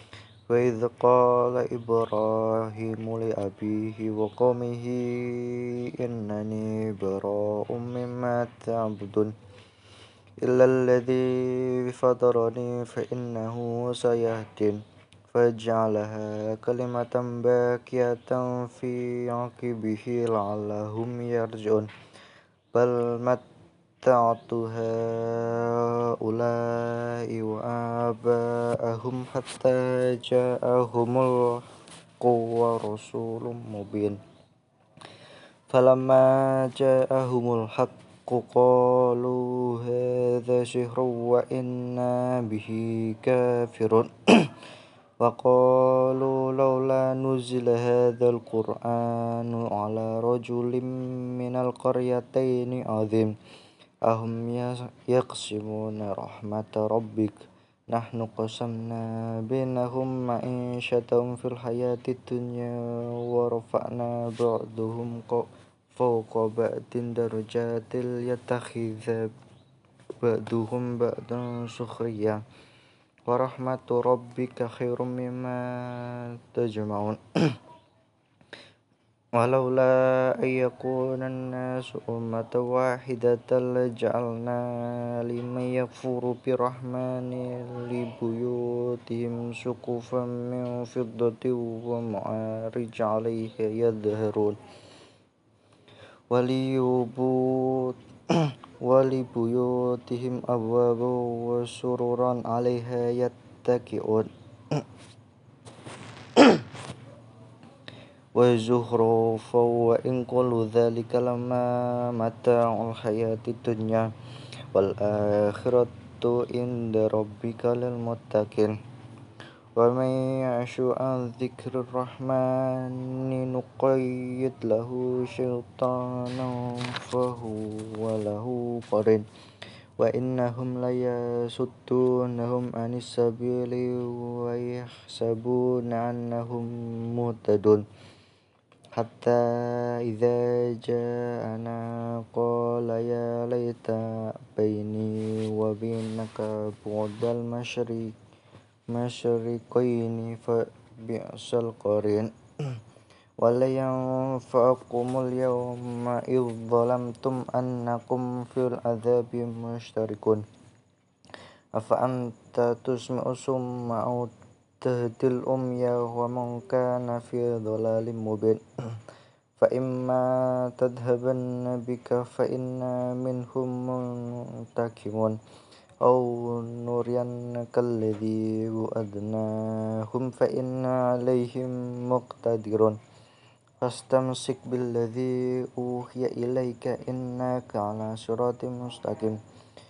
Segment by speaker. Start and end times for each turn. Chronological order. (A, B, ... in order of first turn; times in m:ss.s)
0:00.5-0:09.3 A
0:10.4-0:21.9 A
0:22.7-0:23.4 A
0:24.0-0:31.7 A
0:32.2-0:34.2 A
0:35.7-0:44.6 A
0:45.2-0:53.3 A
0:54.1-0:57.4 A
0:57.9-1:09.3 A
1:10.2-1:12.4 A
1:13.3-1:17.6 A
1:19.4-1:34.6 A
1:36.3-1:44.9 A
1:46.3-1:46.7 A
1:48.4-1:54.1 A
1:54.7-1:58.8 A
1:59.8-2:09.3 A
2:10.0-2:17.8 A
2:19.0-2:28.1 A
2:28.9-2:32.8 A
2:33.4-2:40.4 A
2:41.8-2:49.0 A
2:49.6-2:55.4 A
2:56.0-3:03.0 A
3:03.8-3:09.4 A